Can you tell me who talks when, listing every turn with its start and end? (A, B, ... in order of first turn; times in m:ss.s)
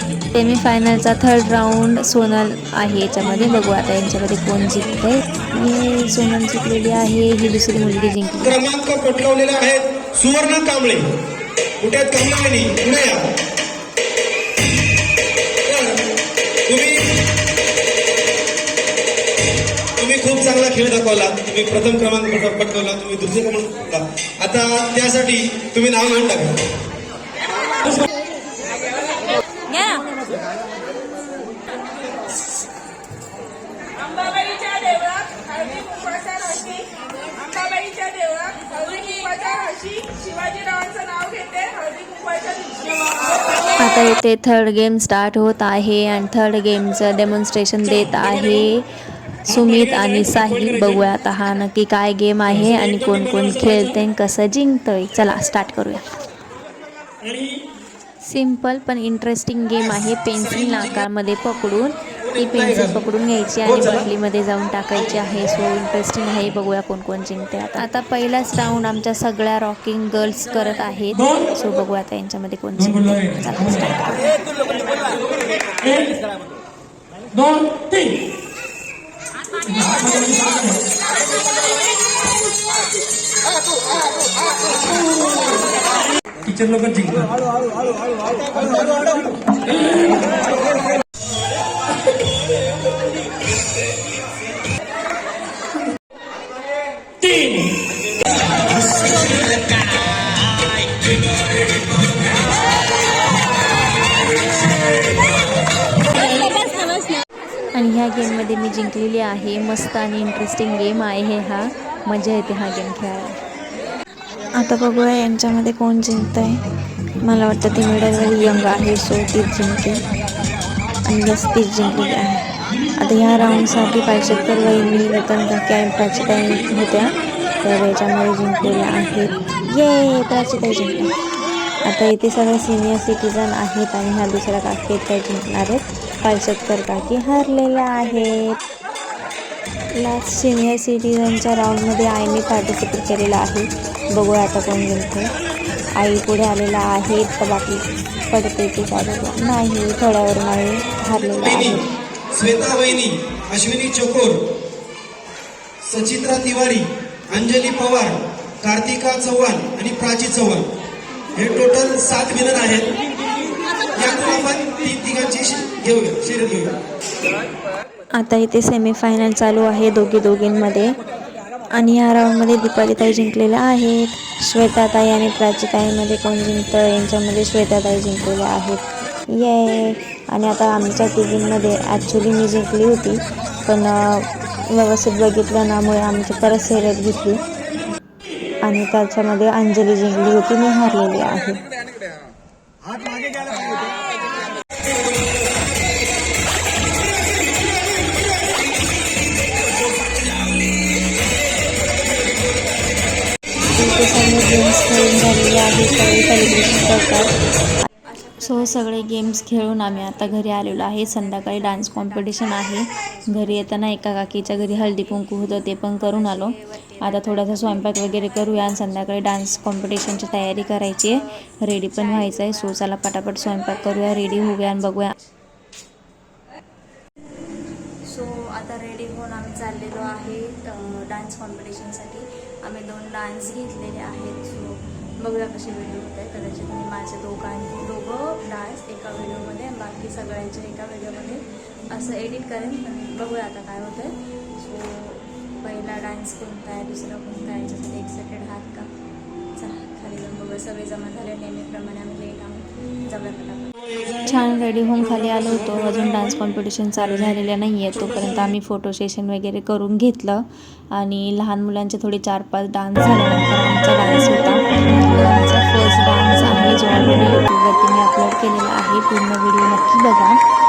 0:00.3-0:08.6 A
0:08.4-0:11.1 B
0:11.8-0:13.3 B
0:15.6-0:16.0 B
0:16.7-0:17.2 B
0:20.0-0:26.6 B
0:34.1-0:36.8 C
0:37.6-0:42.8 C
0:43.8-0:48.9 A
0:49.4-0:56.1 A
0:49.6-0:50.4 D
0:57.2-0:57.6 D
0:58.2-1:14.1 A
1:02.3-1:03.0 B
1:03.6-1:04.0 B
1:15.8-1:16.2 D
1:17.3-1:18.2 D
1:19.6-1:20.8 D
1:26.4-1:27.3 D
1:29.8-1:30.2 D
1:37.2-1:37.6 D
1:47.7-1:53.4 A
1:54.6-1:56.6 A
1:57.2-2:00.0 A
2:01.1-2:11.1 A
2:11.8-2:18.6 A
2:20.0-2:25.3 A
2:26.0-2:31.9 A
2:31.4-2:34.5 B
2:35.8-2:40.7 B
2:41.4-2:42.9 B
2:43.9-2:46.8 B
2:48.1-2:51.0 A
2:51.7-3:07.4 A
3:08.6-3:11.6 A
3:23.7-3:27.4 A
3:28.4-3:45.2 A
3:48.1-4:08.9 A
4:09.6-4:13.7 A
4:13.2-4:13.5 C
4:14.2-4:30.4 A